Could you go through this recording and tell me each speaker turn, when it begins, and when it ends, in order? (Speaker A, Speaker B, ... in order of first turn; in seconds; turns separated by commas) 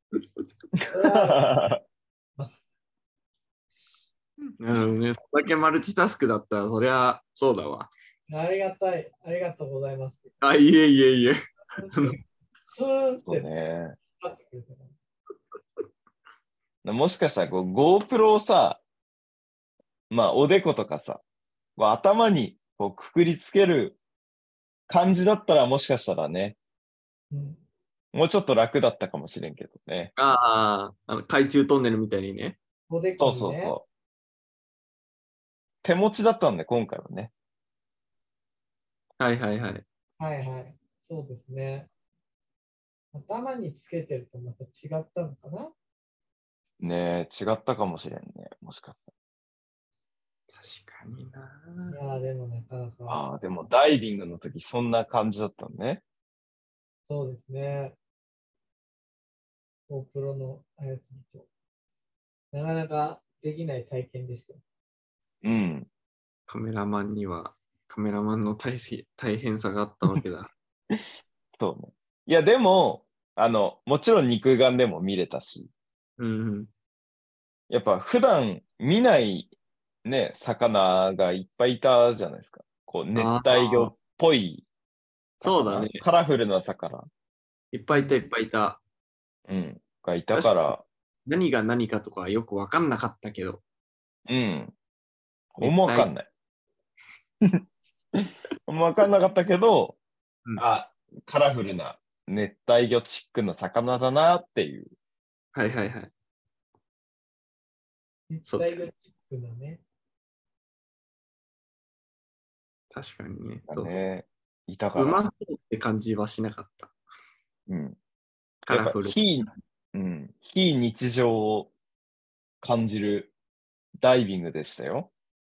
Speaker A: 0.8-1.8, Speaker B: 0.9-1.5, Speaker C: 4.5-7.9, Speaker B: 8.3-10.3, Speaker C: 10.4-11.4, Speaker B: 11.8-12.1, Speaker C: 11.9-12.2, Speaker B: 12.7-13.5, Speaker A: 13.2-13.9, Speaker B: 14.2-14.9, Speaker A: 16.8-18.8, Speaker A: 20.1-21.2, Speaker A: 21.8-24.0, Speaker A: 24.9-26.6, Speaker B: 27.3-27.6, Speaker A: 28.1-30.1, Speaker C: 30.2-32.6, Speaker B: 32.9-33.7, Speaker A: 33.2-33.9, Speaker A: 35.8-37.3, Speaker C: 39.2-39.8, Speaker B: 40.2-41.9, Speaker B: 43.1-45.7, Speaker A: 46.8-49.0, Speaker C: 50.5-52.0, Speaker B: 51.9-53.2, Speaker A: 53.1-56.0, Speaker B: 57.1-58.0, Speaker B: 59.9-61.5, Speaker B: 62.5-64.6, Speaker A: 65.4-65.9, Speaker C: 66.5-70.5, Speaker A: 71.6-75.7, Speaker C: 76.2-76.7, Speaker A: 77.7-79.5, Speaker A: 80.0-84.6, Speaker C: 83.1-83.9, Speaker A: 85.4-87.1, Speaker C: 85.4-86.0, Speaker C: 87.7-88.8, Speaker B: 87.9-88.2, Speaker A: 89.5-90.8, Speaker C: 90.3-90.7, Speaker C: 91.2-93.6, Speaker A: 94.3-94.7, Speaker A: 95.5-96.3, Speaker C: 95.6-96.1, Speaker A: 98.1-100.0, Speaker A: 100.6-104.9, Speaker C: 105.5-106.1, Speaker B: 108.3-109.8, Speaker C: 108.4-108.9, Speaker C: 112.9-114.0, Speaker A: 113.7-115.2, Speaker C: 115.0-116.9, Speaker A: 117.7-118.0, Speaker C: 118.7-119.2, Speaker A: 118.7-121.7, Speaker A: 122.6-123.3, Speaker A: 124.0-125.1